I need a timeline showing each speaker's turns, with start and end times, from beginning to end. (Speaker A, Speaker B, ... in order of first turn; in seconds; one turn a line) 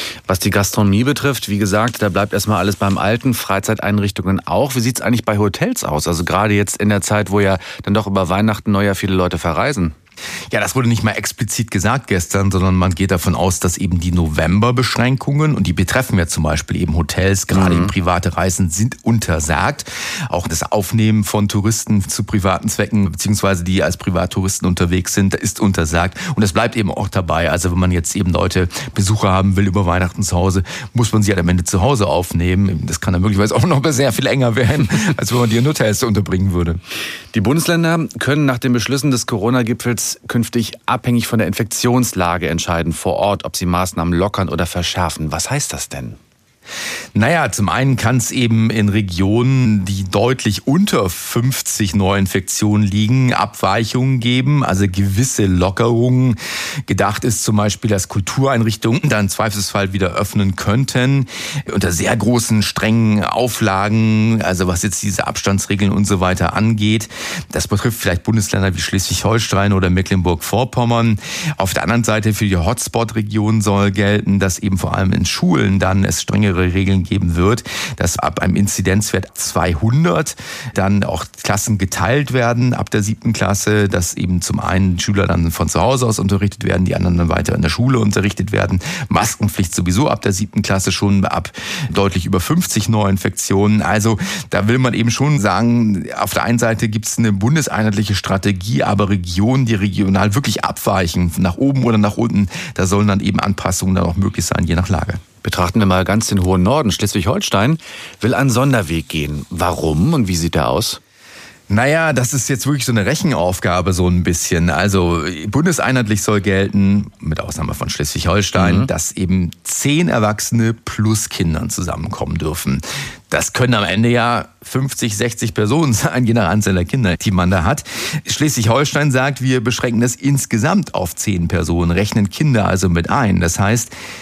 Speaker A: 0.3-9.9
Speaker B: 10.5-36.8
Speaker A: 17.5-17.9
Speaker A: 37.3-46.2
Speaker B: 47.1-105.2
Speaker A: 105.4-111.0
Speaker B: 111.7-133.9
Speaker A: 118.6-118.9